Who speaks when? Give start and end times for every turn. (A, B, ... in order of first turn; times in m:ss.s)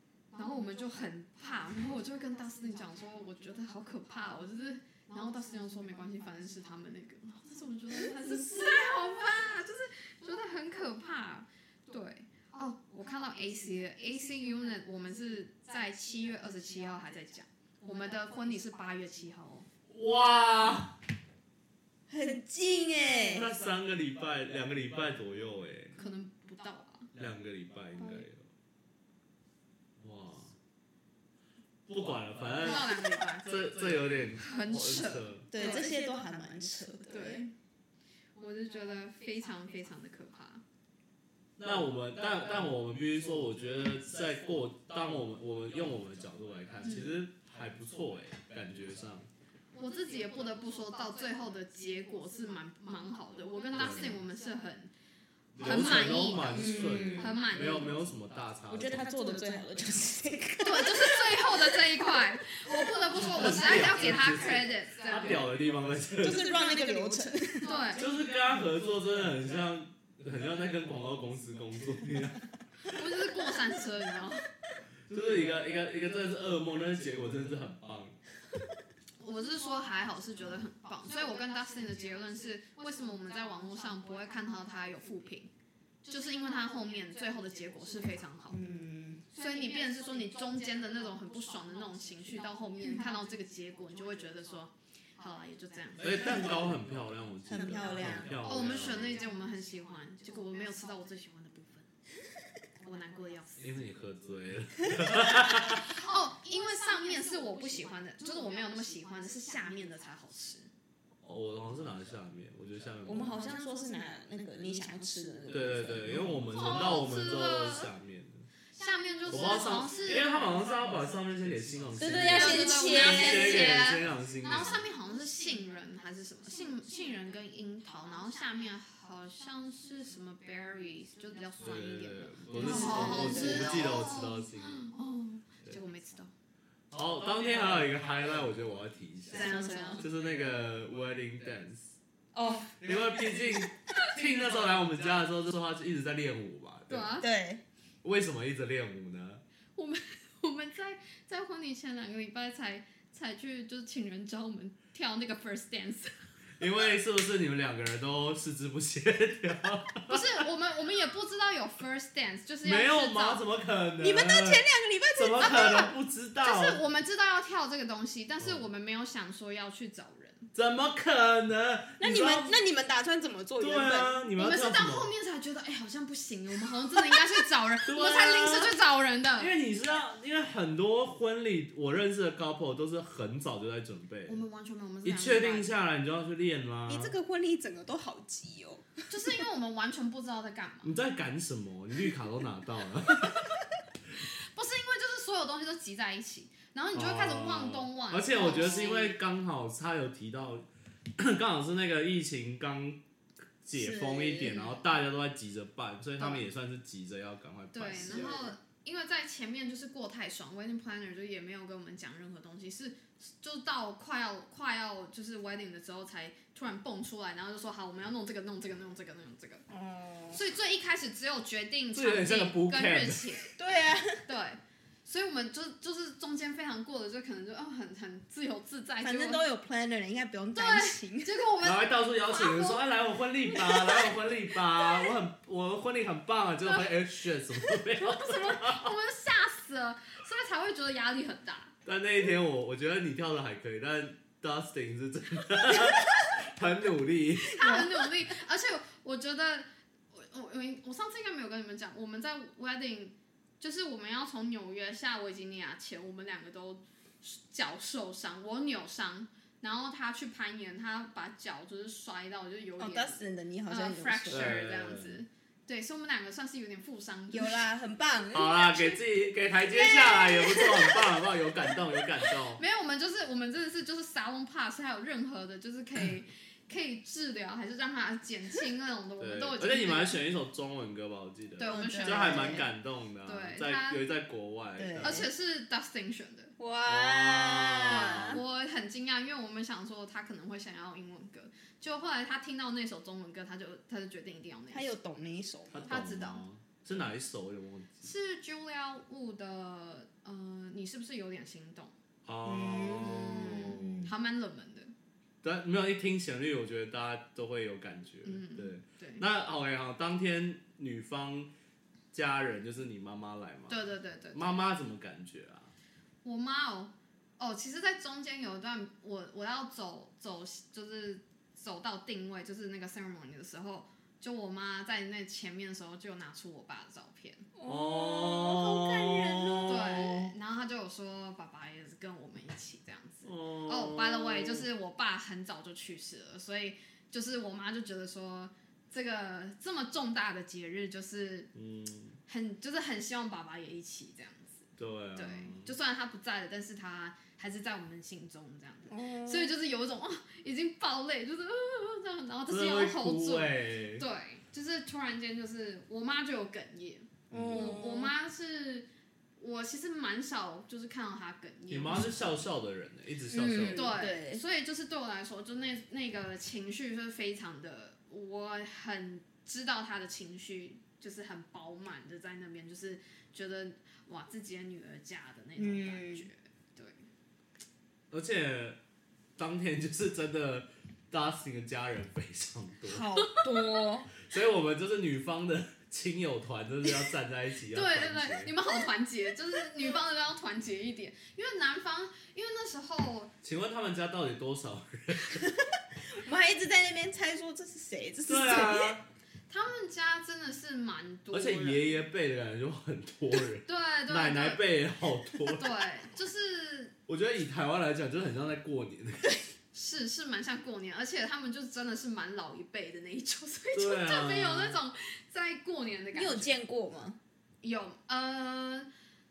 0:00.3-0:19.7 A
0:19.9-0:20.9 B
0:22.1-0:23.5 C
0:23.3-0:26.0 B
0:26.0-0:27.1 A
0:27.2-0:28.5 B
0:28.0-0:28.3 A
0:30.0-0:30.5 B
0:31.9-0:35.5 B
0:32.6-0:33.7 A
0:34.4-0:35.9 A
0:35.5-0:37.5 C
0:37.1-0:37.5 A
0:38.4-0:40.6 A
0:41.6-0:49.3 B
0:46.8-0:47.1 A
0:49.7-0:54.9 A
0:53.8-0:54.2 B
0:55.6-0:58.9 B
0:55.6-0:58.0 A
0:56.5-0:57.4 C
0:58.7-1:02.2 C
1:00.6-1:05.5 A
1:03.2-1:06.5 B
1:06.2-1:08.0 C
1:07.6-1:08.0 A
1:08.0-1:12.4 B
1:12.9-1:14.5 A
1:15.1-1:18.2 B
1:19.2-1:25.5 A
1:26.0-1:28.7 A
1:28.5-1:29.2 C
1:29.3-1:36.6 A
1:36.0-1:39.2 B
1:37.5-1:38.4 C
1:38.4-1:41.9 A
1:42.8-1:43.6 A
1:43.6-1:45.9 B
1:45.5-1:50.7 A
1:51.2-1:53.4 B
1:53.0-1:56.5 C
1:55.5-1:58.5 B
1:56.5-1:57.9 A
1:58.7-2:00.6 A
1:59.3-2:04.8 B
2:02.0-2:03.9 C
2:02.3-2:16.3 A
2:11.6-2:14.8 B
2:12.5-2:13.9 C
2:16.9-2:22.0 B
2:19.3-2:20.1 A
2:19.3-2:20.1 C
2:22.3-2:22.8 C
2:22.8-2:27.2 B
2:26.9-2:27.3 A
2:27.2-2:27.6 C
2:28.0-2:29.4 B
2:29.8-2:36.1 A
2:36.6-2:40.4 B
2:40.1-2:43.4 A
2:42.6-2:46.8 B
2:44.0-2:45.9 C
2:45.4-2:50.5 A
2:50.6-2:52.6 B
2:52.0-2:54.1 C
2:53.6-2:55.1 B
2:54.4-2:59.5 A
2:57.9-2:58.8 B
2:59.4-3:04.4 B
3:04.3-3:05.7 A
3:05.0-3:07.2 B
3:06.9-3:08.9 C
3:09.1-3:10.9 A
3:10.8-3:13.5 B
3:14.5-3:19.2 A
3:16.9-3:20.7 B
3:18.4-3:18.9 C
3:21.2-3:23.0 B
3:23.6-3:28.5 B
3:23.7-3:24.6 C
3:24.5-3:24.8 A
3:26.2-3:26.4 A
3:27.7-3:39.6 A
3:39.7-3:40.4 C
3:40.3-3:43.5 A
3:41.9-3:43.3 B
3:43.6-3:44.3 C
3:44.3-3:49.4 A
3:49.0-3:51.4 C
3:50.5-3:52.9 A
3:51.6-3:58.9 B
3:53.5-3:54.2 A
3:56.6-3:56.9 A
3:58.0-4:01.7 A
4:01.8-4:07.6 B
4:07.5-4:27.7 A
4:07.5-4:08.0 C
4:22.8-4:24.6 C
4:24.3-4:25.2 B
4:27.3-4:29.0 C
4:28.3-4:32.6 B
4:30.0-4:31.0 A
4:32.6-4:40.2 A
4:39.2-4:45.2 B
4:41.6-4:42.7 A
4:41.6-4:42.7 C
4:43.2-4:44.0 A
4:44.8-4:45.3 C
4:45.0-4:46.5 A
4:46.6-4:48.4 C
4:46.9-4:48.4 B
4:47.9-4:54.9 A
4:54.7-4:56.0 C
4:55.7-4:58.0 B
4:55.9-4:56.4 A
4:58.0-5:02.0 A
5:02.2-5:04.0 B
5:02.4-5:04.1 C
5:03.0-5:04.9 A
5:05.4-5:11.5 B
5:08.2-5:09.2 A
5:12.1-5:15.7 B
5:13.7-5:14.6 A
5:16.2-5:27.5 A
5:27.6-5:30.1 C
5:27.6-5:30.3 B
5:29.7-5:41.5 A
5:33.2-5:34.7 B
5:41.6-5:42.2 B
5:42.3-6:02.4 A
5:44.8-5:45.7 B
5:48.9-5:49.6 C
5:52.5-5:54.0 B
5:57.3-5:57.9 B
5:57.3-5:58.1 C
6:01.7-6:04.0 B
6:03.3-6:04.4 C
6:03.7-6:17.0 A
6:15.6-6:16.3 C
6:18.1-6:18.8 B
6:19.4-6:23.1 B
6:22.8-6:24.1 C
6:24.2-6:28.5 B
6:27.7-6:33.3 A
6:33.4-6:35.5 B
6:35.5-6:39.0 C
6:38.3-6:39.0 B
6:39.5-6:41.9 A
6:41.3-6:45.8 B
6:43.7-6:44.6 A
6:45.5-6:47.0 A
6:47.1-6:49.4 B
6:49.7-6:56.5 A
6:53.7-6:54.8 B
6:56.1-6:57.2 C
6:57.6-6:58.9 A